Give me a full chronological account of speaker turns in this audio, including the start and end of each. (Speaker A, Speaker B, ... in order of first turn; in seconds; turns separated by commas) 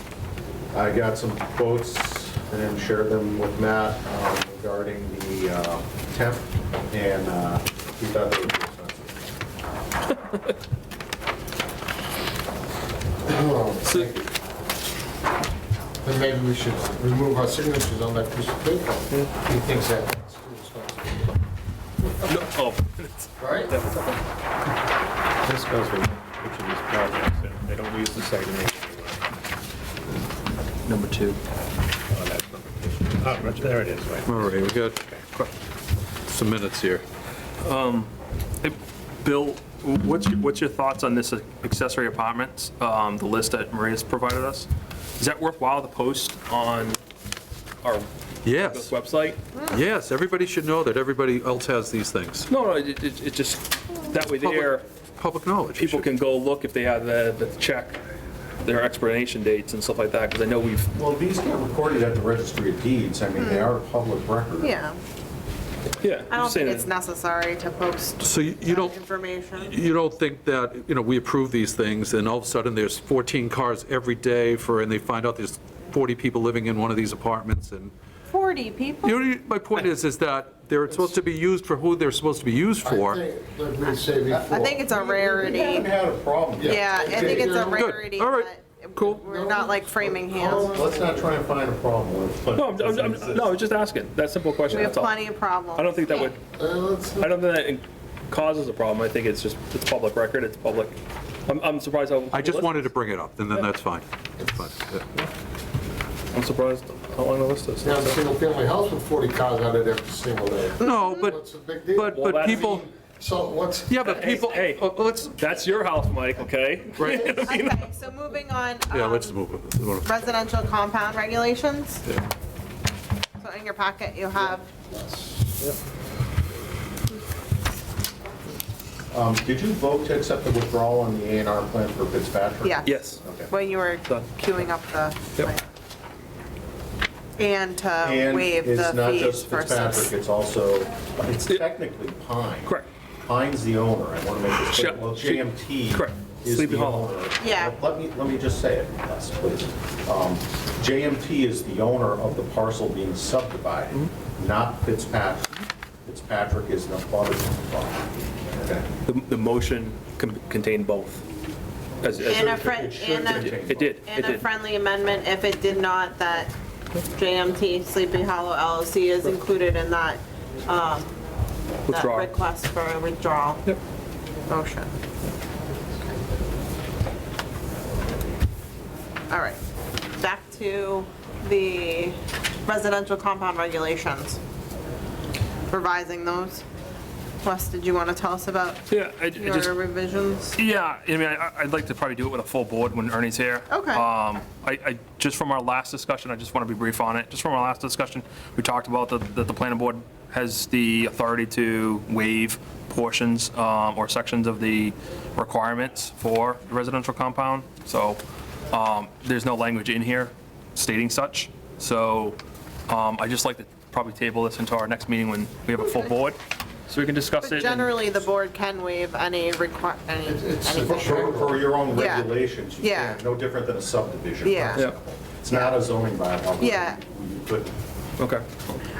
Speaker A: 0.7-9.2, Speaker B: 13.2-14.3, Speaker C: 13.8-14.1, Speaker B: 16.0-21.3, Speaker C: 22.2-24.2, Speaker B: 23.4-23.7, Speaker D: 25.4-29.2, Speaker C: 30.8-31.4, Speaker D: 32.1-34.6, Speaker E: 34.2-35.1, Speaker E: 36.2-37.0, Speaker C: 37.6-47.0, Speaker C: 47.8-49.4, Speaker E: 48.4-48.9, Speaker E: 49.5-52.5, Speaker C: 52.5-54.8, Speaker E: 54.3-56.1, Speaker C: 55.8-58.0, Speaker C: 58.6-60.9, Speaker A: 60.9-64.7, Speaker F: 63.4-63.7, Speaker F: 64.6-65.0, Speaker C: 66.0-66.9, Speaker F: 66.3-69.8, Speaker E: 68.2-69.0, Speaker E: 69.5-77.9, Speaker F: 78.3-79.2, Speaker E: 79.0-83.2, Speaker B: 82.8-84.8, Speaker A: 84.3-87.8, Speaker F: 84.5-85.9, Speaker B: 86.6-87.9, Speaker F: 86.6-90.7, Speaker E: 87.7-89.2, Speaker B: 89.2-91.3, Speaker A: 90.3-93.6, Speaker C: 92.5-96.4, Speaker F: 94.7-96.3, Speaker B: 96.4-97.4, Speaker C: 97.2-102.9, Speaker E: 102.3-105.1, Speaker C: 106.3-108.2, Speaker B: 107.8-114.0, Speaker E: 110.8-111.4, Speaker F: 110.8-111.2, Speaker E: 111.9-112.9, Speaker C: 112.0-112.8, Speaker E: 113.9-115.5, Speaker C: 114.0-114.8, Speaker C: 115.4-117.9, Speaker E: 117.0-117.5, Speaker F: 117.2-119.4, Speaker E: 118.9-120.2, Speaker F: 120.0-122.0, Speaker F: 123.4-124.7, Speaker B: 125.0-125.5, Speaker A: 129.1-133.5, Speaker F: 132.6-135.6, Speaker C: 132.8-133.2, Speaker F: 137.4-140.1, Speaker A: 138.0-155.5, Speaker C: 144.7-147.1, Speaker F: 147.4-147.8, Speaker A: 156.1-158.0, Speaker A: 158.6-158.8, Speaker C: 159.0-161.2, Speaker C: 162.0-164.4, Speaker A: 162.2-164.0, Speaker F: 162.2-166.5, Speaker F: 167.1-171.2, Speaker C: 171.9-172.3, Speaker F: 171.9-173.6, Speaker F: 174.5-174.9, Speaker F: 179.3-179.6, Speaker F: 180.2-184.4, Speaker F: 185.7-186.6, Speaker F: 187.4-188.8, Speaker C: 188.9-189.7, Speaker F: 189.3-190.6, Speaker C: 190.6-217.9, Speaker F: 193.7-194.1, Speaker F: 217.4-223.2, Speaker B: 220.2-222.0, Speaker A: 220.8-224.9, Speaker F: 224.4-224.9, Speaker A: 225.4-227.7, Speaker F: 225.5-225.8, Speaker F: 226.6-227.0, Speaker C: 228.2-228.8